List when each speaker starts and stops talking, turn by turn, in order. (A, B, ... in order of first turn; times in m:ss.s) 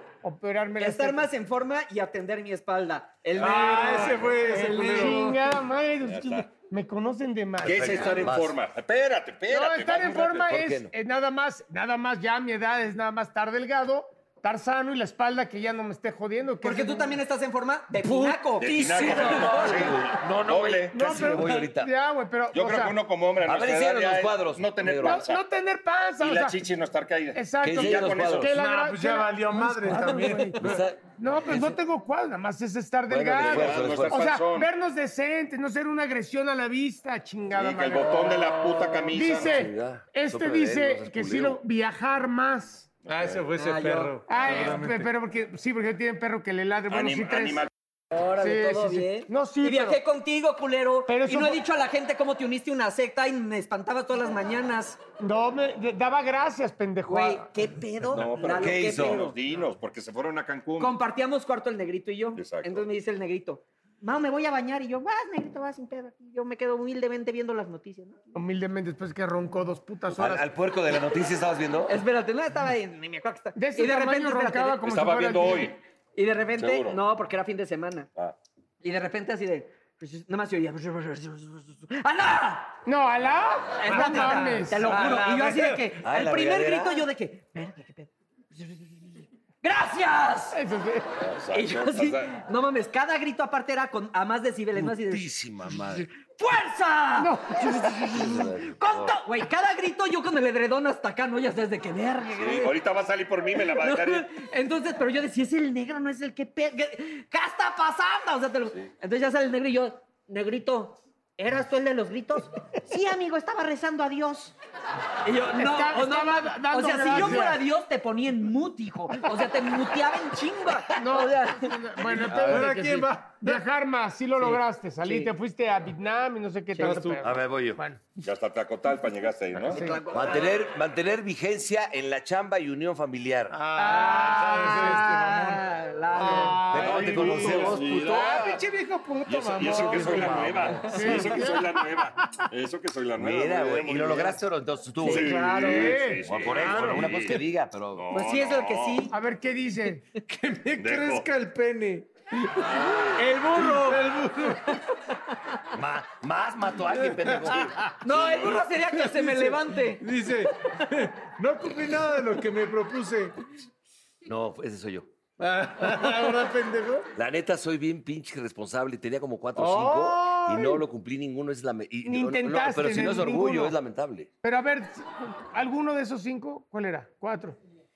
0:00.2-0:01.2 A
0:00.8-0:05.2 B
0:03.4-0:05.4 C
0:03.4-0:08.0 A
0:06.0-0:06.5 D
0:07.6-0:08.6 E
0:07.6-0:10.5 D
0:09.5-0:17.2 A
0:10.4-0:10.9 E
0:16.6-0:20.0 B
0:18.1-0:18.4 C
0:18.6-0:21.5 D
0:18.9-0:21.9 E
0:20.9-0:22.9 A
0:22.5-0:25.4 D
0:23.4-0:25.3 E
0:25.0-0:26.6 A
0:26.2-0:28.5 D
0:27.3-0:30.6 A
0:27.6-0:28.5 E
0:28.5-0:30.8 C
0:30.6-0:31.7 E
0:31.2-0:42.9 A
0:33.1-0:34.2 E
0:33.3-0:34.7 D
0:37.5-0:39.5 D
0:38.8-0:39.0 C
0:39.3-0:41.6 E
0:43.0-0:43.5 D
0:43.1-0:45.1 C
0:43.6-0:44.6 B
0:44.3-0:47.7 A
0:44.3-0:44.9 D
0:46.9-0:47.7 D
0:48.1-0:55.0 B
0:48.4-0:50.0 A
0:51.1-0:51.6 A
0:55.2-0:57.5 A
0:57.1-0:59.3 B
0:58.1-1:01.0 D
0:58.5-0:59.3 E
1:00.8-1:08.2 B
1:02.3-1:02.9 D
1:08.3-1:10.4 A
1:10.1-1:12.0 E
1:11.9-1:14.8 B
1:13.5-1:15.7 A
1:14.8-1:15.8 D
1:16.1-1:18.1 B
1:16.6-1:17.0 D
1:18.8-1:22.8 B
1:22.8-1:24.9 A
1:23.8-1:30.6 B
1:23.9-1:25.9 C
1:26.0-1:27.0 E
1:30.5-1:31.1 A
1:31.2-1:32.3 D
1:31.5-1:35.4 B
1:34.7-1:36.1 E
1:36.1-1:42.8 B
1:37.2-1:38.4 A
1:38.1-1:39.1 E
1:42.3-1:44.3 D
1:43.5-1:54.5 B
1:55.2-2:01.7 B
1:55.5-1:57.6 A
1:57.1-1:57.4 C
2:01.0-2:08.0 A
2:02.0-2:03.6 C
2:02.3-2:02.6 E
2:04.4-2:04.6 C
2:06.8-2:07.3 C
2:06.8-2:07.8 E
2:08.2-2:09.8 D
2:09.7-2:10.6 B
2:09.7-2:10.0 A
2:10.1-2:13.6 E
2:13.5-2:21.4 C
2:13.8-2:16.8 B
2:14.5-2:15.0 A
2:16.7-2:18.4 E
2:16.7-2:18.6 D
2:19.2-2:24.4 D
2:19.6-2:21.0 E
2:20.9-2:21.7 A
2:23.2-2:25.4 E
2:25.0-2:29.1 D
2:25.1-2:26.2 C
2:25.2-2:26.0 B
2:25.5-2:25.9 A
2:26.2-2:28.1 E
2:26.6-2:27.1 A
2:28.1-2:29.1 B
2:29.1-2:30.0 A
2:30.2-2:34.7 C
2:30.8-2:31.3 D
2:32.5-2:34.0 D
2:35.7-2:37.8 E
2:36.9-2:43.4 C
2:38.0-2:40.1 B
2:44.2-2:45.1 E
2:45.4-2:47.1 C
2:47.1-2:54.3 E
2:49.5-2:50.8 C
2:52.0-2:53.7 A
2:54.4-2:57.6 A